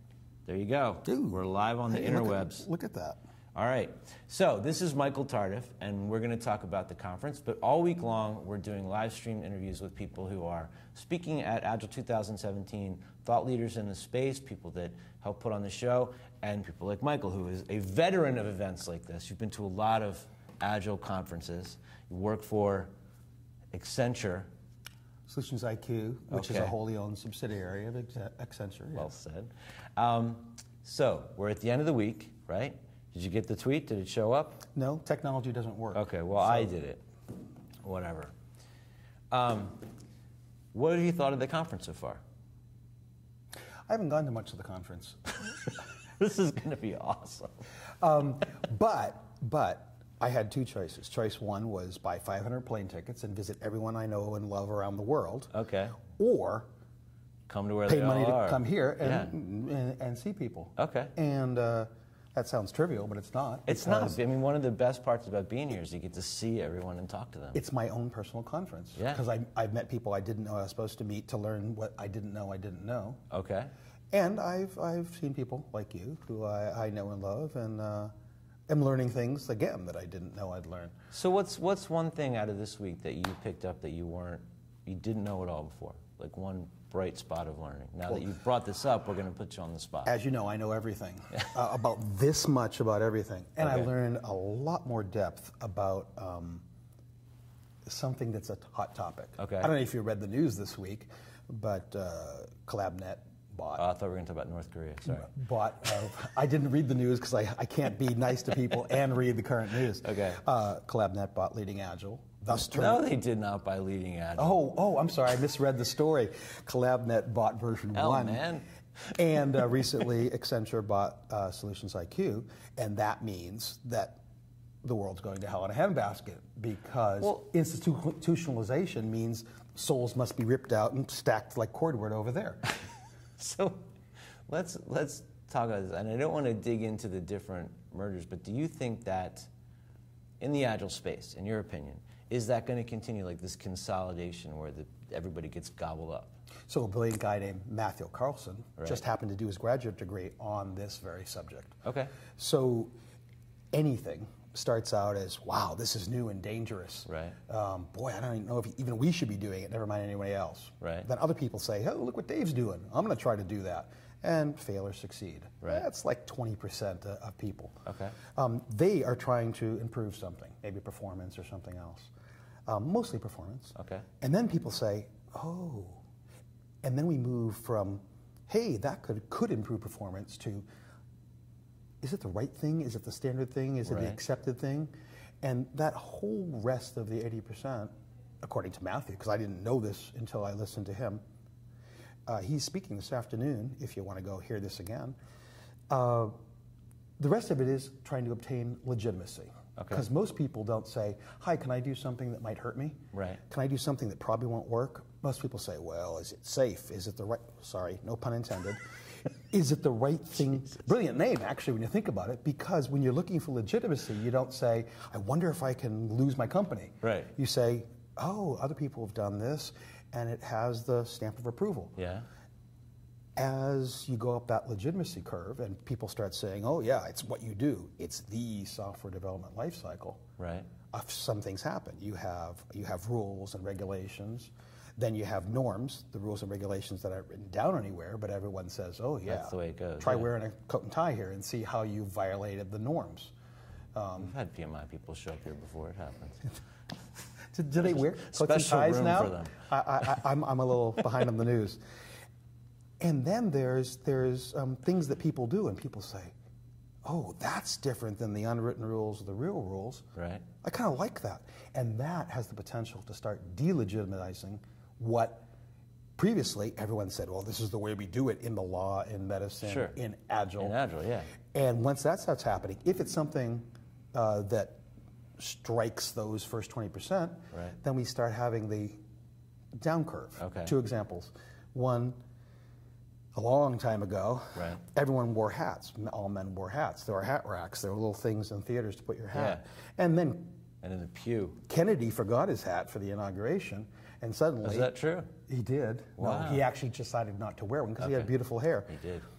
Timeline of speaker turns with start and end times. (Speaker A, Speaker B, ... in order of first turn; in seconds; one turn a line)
Speaker A: 0.5-2.7
Speaker B: 1.1-3.2
Speaker A: 3.5-22.9
Speaker A: 23.7-24.5
Speaker B: 25.3-29.1
Speaker A: 26.3-26.8
Speaker A: 28.9-34.6
Speaker B: 34.8-36.7
Speaker A: 35.9-37.0
Speaker A: 37.8-38.3
Speaker A: 39.3-39.9
Speaker A: 40.7-42.2
Speaker B: 43.9-45.3
Speaker A: 46.2-47.6
Speaker B: 48.0-56.7
Speaker A: 55.5-56.0
Speaker A: 57.5-59.3
Speaker B: 57.9-64.2
Speaker A: 60.8-61.1
Speaker A: 63.7-67.6
Speaker B: 67.5-73.2
Speaker A: 69.0-69.2
Speaker A: 73.3-73.7
Speaker B: 74.1-78.1
Speaker B: 78.7-81.0
Speaker A: 81.1-90.2
Speaker B: 90.0-96.6
Speaker A: 93.6-93.9
Speaker B: 97.9-103.8
Speaker A: 99.4-99.7
Speaker A: 103.8-105.3
Speaker B: 105.1-113.1
Speaker A: 110.0-110.4
Speaker A: 112.5-114.6
Speaker B: 114.4-118.5
Speaker A: 118.0-118.7
Speaker B: 119.2-124.2
Speaker B: 124.8-132.7
Speaker A: 133.4-133.9
Speaker A: 134.5-139.5
Speaker A: 140.4-146.3
Speaker B: 146.7-151.8
Speaker A: 148.8-149.0
Speaker A: 151.8-152.1
Speaker B: 152.4-152.9
Speaker B: 153.7-167.8
Speaker A: 157.1-157.4
Speaker A: 160.8-161.1
Speaker A: 167.9-168.2
Speaker B: 168.3-172.1
Speaker B: 172.7-176.0
Speaker A: 173.8-174.1
Speaker B: 176.8-180.7
Speaker B: 182.0-191.2
Speaker A: 183.9-184.2
Speaker B: 192.3-195.2
Speaker B: 195.9-196.3
Speaker B: 197.2-203.0
Speaker A: 199.8-200.1
Speaker A: 203.1-203.4
Speaker B: 203.5-208.8
Speaker B: 209.5-222.0
Speaker A: 217.0-217.3
Speaker A: 222.0-222.3
Speaker B: 223.4-230.2
Speaker A: 230.4-230.7
Speaker B: 230.9-243.3
Speaker A: 239.2-240.3
Speaker B: 243.9-244.3
Speaker A: 244.2-246.5
Speaker B: 247.5-251.8
Speaker A: 247.8-250.2
Speaker B: 253.0-256.3
Speaker B: 257.1-260.0
Speaker A: 260.1-260.4
Speaker B: 260.6-265.5
Speaker B: 266.2-270.8
Speaker A: 269.6-270.0
Speaker A: 270.6-271.3
Speaker B: 271.5-274.8
Speaker B: 275.4-279.0
Speaker B: 279.8-282.2
Speaker A: 280.4-280.7
Speaker B: 283.4-290.6
Speaker A: 289.3-289.6
Speaker A: 290.8-291.6
Speaker B: 291.7-294.9
Speaker A: 294.6-295.3
Speaker B: 295.5-298.9
Speaker A: 296.2-296.6
Speaker A: 298.0-298.4
Speaker A: 298.9-299.3